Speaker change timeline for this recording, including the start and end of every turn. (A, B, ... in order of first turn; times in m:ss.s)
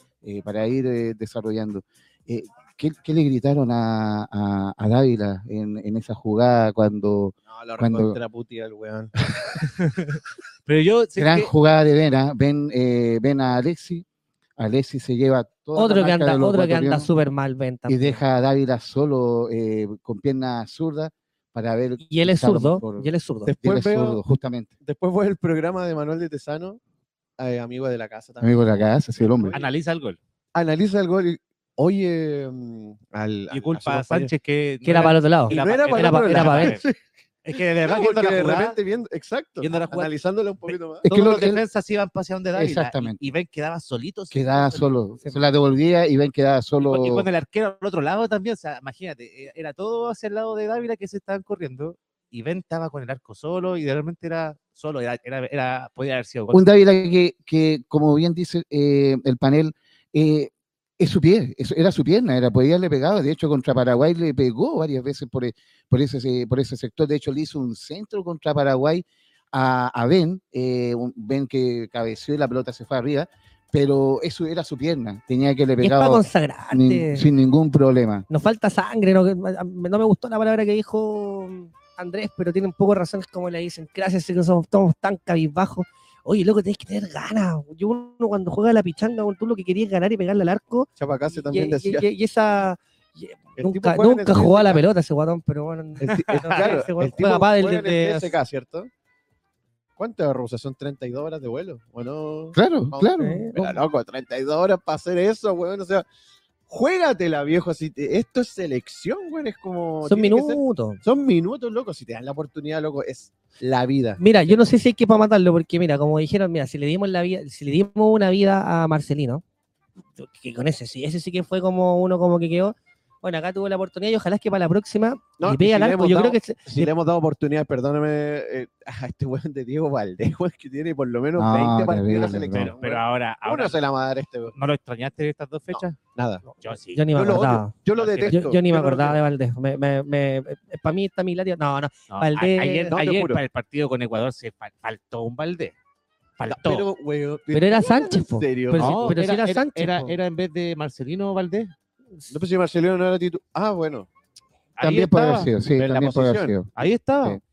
0:00.2-0:08.2 A
0:07.5-0:09.2 B
0:09.8-0:11.5 C
0:11.2-0:14.0 A
0:14.6-0:17.1 A
0:15.8-0:18.2 D
0:17.9-0:23.1 A
0:22.0-0:23.5 D
0:23.5-0:24.2 B
0:23.6-0:24.7 A
0:24.8-0:26.8 B
0:27.4-0:29.7 B
0:28.4-0:29.6 A
0:29.5-0:30.2 C
0:30.5-0:34.3 B
0:33.5-0:36.8 C
0:34.8-0:36.8 D
0:35.5-0:37.0 B
0:37.4-0:38.8 C
0:37.8-0:41.1 B
0:39.6-0:40.1 C
0:40.7-0:45.0 C
0:41.0-0:41.6 A
0:42.6-0:43.2 A
0:44.3-0:47.3 A
0:46.8-0:56.6 C
0:56.5-1:18.3 A
1:15.8-1:17.3 D
1:18.3-1:38.3 D
1:31.0-1:32.1 B
1:33.6-1:34.8 B
1:36.0-1:38.9 B
1:36.1-1:36.7 C
1:40.0-1:46.0 B
1:42.6-1:43.5 A
1:43.2-1:43.8 D
1:46.7-1:54.2 B
1:50.0-1:51.0 D
1:54.2-1:59.4 D
2:00.2-2:06.9 D
2:05.4-2:14.6 B
2:11.4-2:12.7 A
2:12.4-2:13.8 C
2:14.5-2:16.0 C
2:15.7-2:16.5 B
2:16.6-2:17.1 C
2:16.9-2:17.7 D
2:17.1-2:19.2 B
2:17.9-2:18.5 C
2:18.3-2:23.0 D
2:22.1-2:25.8 C
2:22.9-2:23.4 B
2:26.4-2:26.9 C
2:26.5-2:29.2 B
2:27.5-2:30.2 D
2:28.8-2:31.7 C
2:32.3-2:34.1 B
2:34.8-2:35.5 C
2:34.8-2:36.7 A
2:35.8-2:36.6 B
2:36.8-2:37.4 C